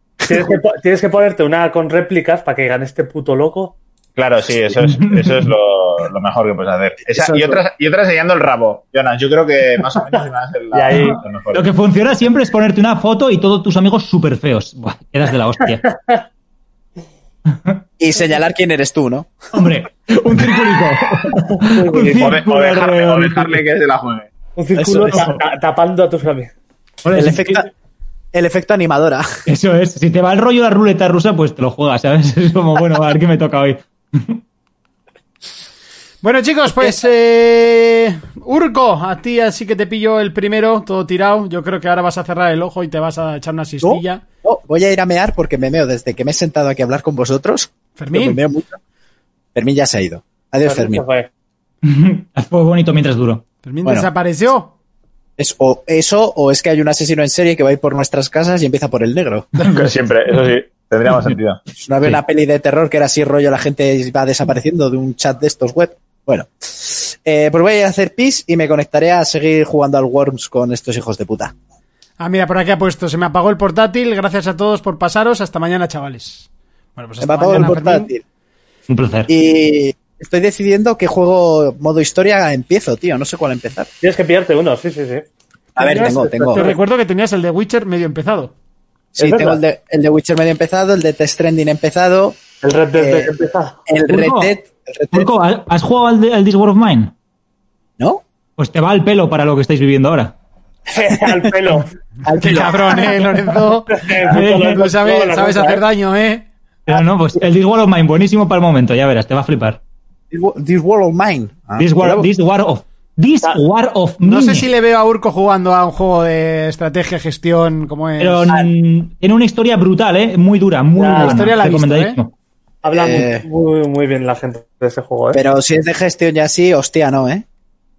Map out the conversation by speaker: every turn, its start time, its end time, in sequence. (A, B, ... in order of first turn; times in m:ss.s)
0:00.2-0:03.8 A
0:04.2-0:11.7 B
0:04.8-0:05.5 C
0:07.1-0:07.6 D
0:10.7-0:11.2 A
0:11.5-0:15.8 C
0:15.8-0:16.2 A
0:18.0-0:19.3 D
0:19.5-0:23.6 C
0:21.6-0:22.4 A
0:22.2-0:24.3 B
0:24.6-0:26.5 A
0:24.7-0:25.3 D
0:25.1-0:25.4 C
0:27.0-0:27.6 C
0:27.1-0:27.7 D
0:28.3-0:29.3 D
0:29.4-0:34.4 C
0:36.2-0:44.2 E
0:43.8-0:48.8 D
0:48.0-0:48.4 E
0:49.5-0:51.0 D
0:50.6-0:51.3 A
0:51.8-0:53.4 C
0:53.6-0:54.7 E
0:53.8-0:54.1 D
0:55.4-0:59.5 D
0:59.6-1:01.6 B
1:01.8-1:11.5 D
1:12.2-1:18.1 E
1:17.2-1:18.2 D
1:18.9-1:19.3 C
1:19.3-1:23.9 D
1:24.0-1:26.8 A
1:25.8-1:26.7 D
1:26.5-1:28.5 E
1:29.1-1:32.4 D
1:29.2-1:29.6 A
1:32.6-1:33.8 A
1:32.9-1:33.3 D
1:33.8-1:35.3 D
1:34.1-1:34.5 C
1:35.1-1:37.1 C
1:38.6-1:40.3 C
1:40.9-1:41.9 A
1:41.1-1:41.5 D
1:42.2-1:43.3 D
1:42.4-1:44.0 E
1:43.9-1:45.8 A
1:44.3-1:44.7 C
1:44.7-1:46.4 E
1:46.9-1:49.8 C
1:50.3-1:52.3 D
1:51.8-1:54.7 C
1:54.2-1:58.6 E
1:58.2-2:02.3 C
2:01.0-2:01.6 A
2:01.2-2:02.2 E
2:02.8-2:05.4 A
2:02.9-2:03.4 D
2:05.3-2:07.4 D